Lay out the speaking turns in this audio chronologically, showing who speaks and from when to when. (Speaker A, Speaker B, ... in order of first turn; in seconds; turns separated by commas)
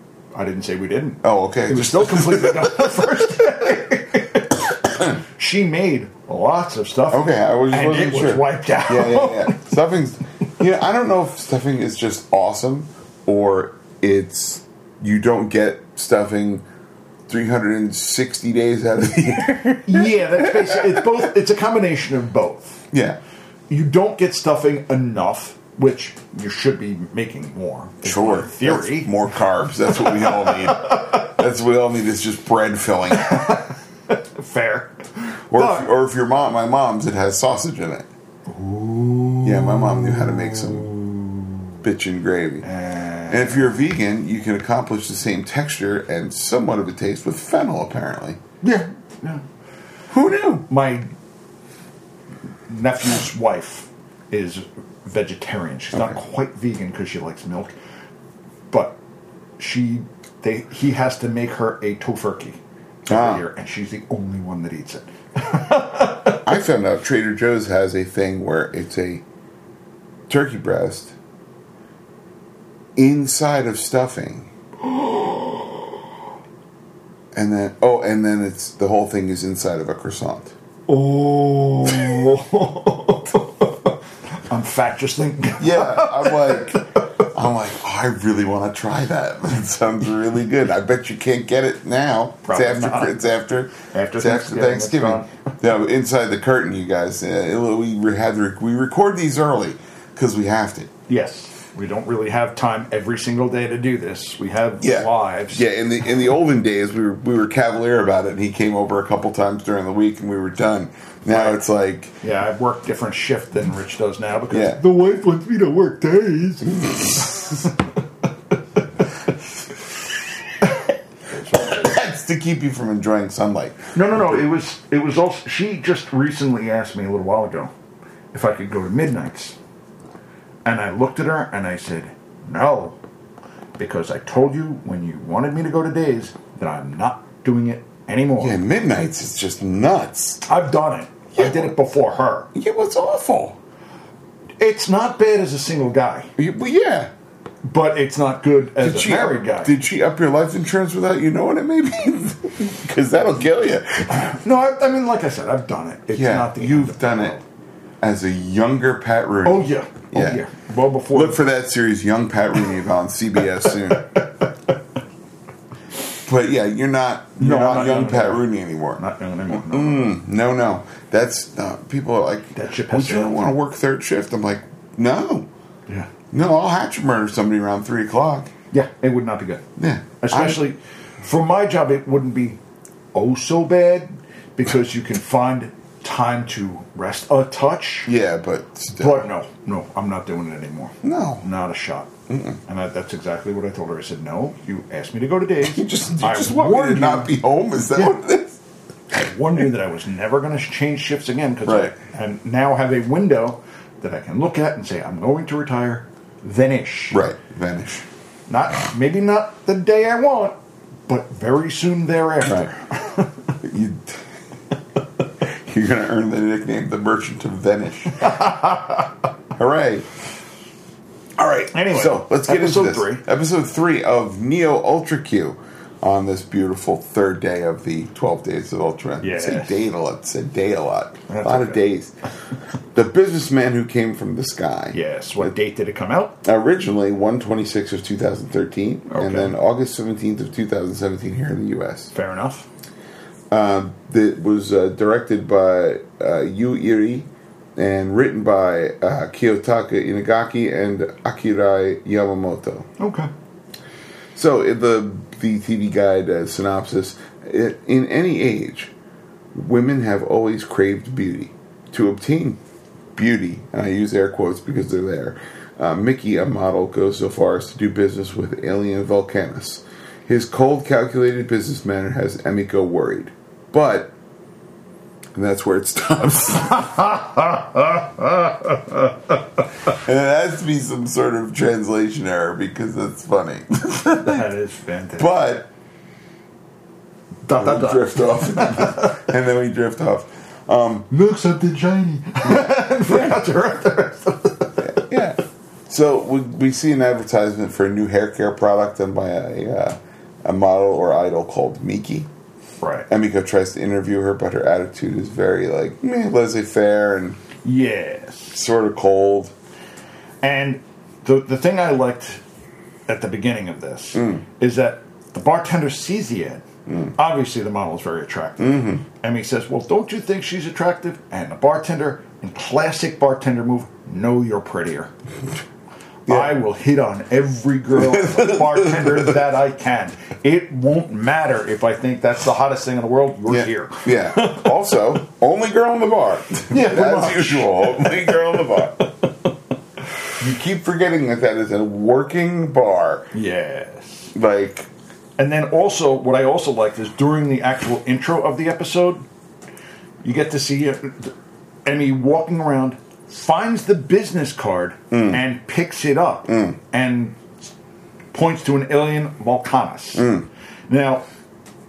Speaker A: 0.3-9.6, Speaker B: 1.2-3.2, Speaker B: 7.1-16.6, Speaker B: 17.3-21.0, Speaker A: 19.9-22.8, Speaker B: 22.9-23.2, Speaker A: 23.7-29.1, Speaker B: 28.0-33.5, Speaker A: 29.9-31.3, Speaker A: 33.1-35.9, Speaker B: 35.5-38.1, Speaker A: 38.5-41.7, Speaker B: 39.4-40.9, Speaker B: 41.8-42.7, Speaker A: 42.6-43.7, Speaker B: 43.3-48.4, Speaker A: 48.6-49.4, Speaker B: 50.1-50.6, Speaker A: 50.7-51.1, Speaker A: 52.7-57.7, Speaker A: 58.7-59.0, Speaker A: 59.6-66.5, Speaker B: 63.1-63.4, Speaker B: 66.4-69.2, Speaker B: 70.3-71.1, Speaker B: 73.0-74.5, Speaker A: 74.8-75.8, Speaker B: 77.3-80.5, Speaker A: 80.9-87.0, Speaker B: 81.8-82.3, Speaker B: 85.6-100.9, Speaker A: 92.4-93.1, Speaker A: 93.9-95.5, Speaker A: 101.1-105.6, Speaker B: 104.8-112.2, Speaker A: 111.3-111.6, Speaker A: 112.2-117.9, Speaker B: 114.5-114.8, Speaker B: 116.7-117.3, Speaker A: 121.3-121.9, Speaker B: 121.5-124.4, Speaker A: 123.9-127.7, Speaker A: 128.3-129.6, Speaker A: 130.6-133.0, Speaker A: 133.8-138.6, Speaker B: 138.4-140.4, Speaker A: 140.4-142.5, Speaker B: 141.3-141.8, Speaker B: 142.5-143.6, Speaker A: 144.6-146.3, Speaker B: 146.4-147.1, Speaker A: 147.6-149.7, Speaker B: 148.8-154.4, Speaker A: 154.4-157.4, Speaker B: 156.1-157.4, Speaker B: 158.0-160.4, Speaker A: 159.4-161.4, Speaker B: 161.1-164.0, Speaker A: 163.7-164.7, Speaker B: 166.2-169.0, Speaker A: 167.4-170.2, Speaker B: 169.5-175.5, Speaker A: 172.5-173.4, Speaker B: 176.3-178.5, Speaker A: 178.7-179.6, Speaker B: 179.8-180.6, Speaker A: 180.2-182.6, Speaker A: 183.1-188.1, Speaker B: 188.1-189.2, Speaker A: 189.0-192.1, Speaker B: 191.0-191.4, Speaker B: 192.3-192.6, Speaker A: 192.6-197.3, Speaker B: 195.6-198.6, Speaker A: 199.1-207.2, Speaker B: 201.7-201.9, Speaker B: 207.1-208.1, Speaker A: 208.5-210.5, Speaker A: 211.1-213.3, Speaker B: 212.4-212.7, Speaker B: 213.6-214.3, Speaker B: 215.4-218.4, Speaker A: 218.2-219.0, Speaker B: 219.5-220.1, Speaker B: 221.4-232.1, Speaker A: 221.7-223.2, Speaker A: 229.2-229.9, Speaker A: 231.3-231.8, Speaker B: 232.9-235.5, Speaker A: 234.9-236.3, Speaker B: 236.4-242.1, Speaker A: 239.1-239.5, Speaker A: 242.1-242.7, Speaker B: 243.5-252.9, Speaker A: 253.0-253.3, Speaker B: 254.3-258.9, Speaker B: 259.5-262.6, Speaker B: 263.1-274.1, Speaker B: 275.3-277.2, Speaker A: 276.8-279.1, Speaker B: 279.9-284.4, Speaker A: 284.1-285.4, Speaker B: 285.2-285.7, Speaker A: 287.4-289.2, Speaker B: 287.5-291.1, Speaker A: 291.1-295.1, Speaker B: 293.1-293.4, Speaker B: 294.8-302.3, Speaker A: 302.8-303.1, Speaker B: 303.1-307.4, Speaker A: 307.6-308.6, Speaker B: 308.5-309.5, Speaker A: 310.4-312.4, Speaker A: 313.1-316.6, Speaker B: 314.1-314.4, Speaker B: 316.9-317.1, Speaker A: 317.1-325.1, Speaker B: 318.6-319.0, Speaker B: 326.3-326.5, Speaker A: 326.3-334.7, Speaker B: 327.9-329.4, Speaker B: 333.5-339.1, Speaker A: 336.7-339.3, Speaker B: 340.4-343.3, Speaker A: 343.3-344.3, Speaker B: 344.3-344.9, Speaker A: 345.4-349.2, Speaker A: 350.2-351.3, Speaker A: 351.8-357.5, Speaker B: 355.1-355.4, Speaker B: 356.5-356.8, Speaker A: 358.3-360.3, Speaker B: 360.1-360.5, Speaker A: 360.9-361.2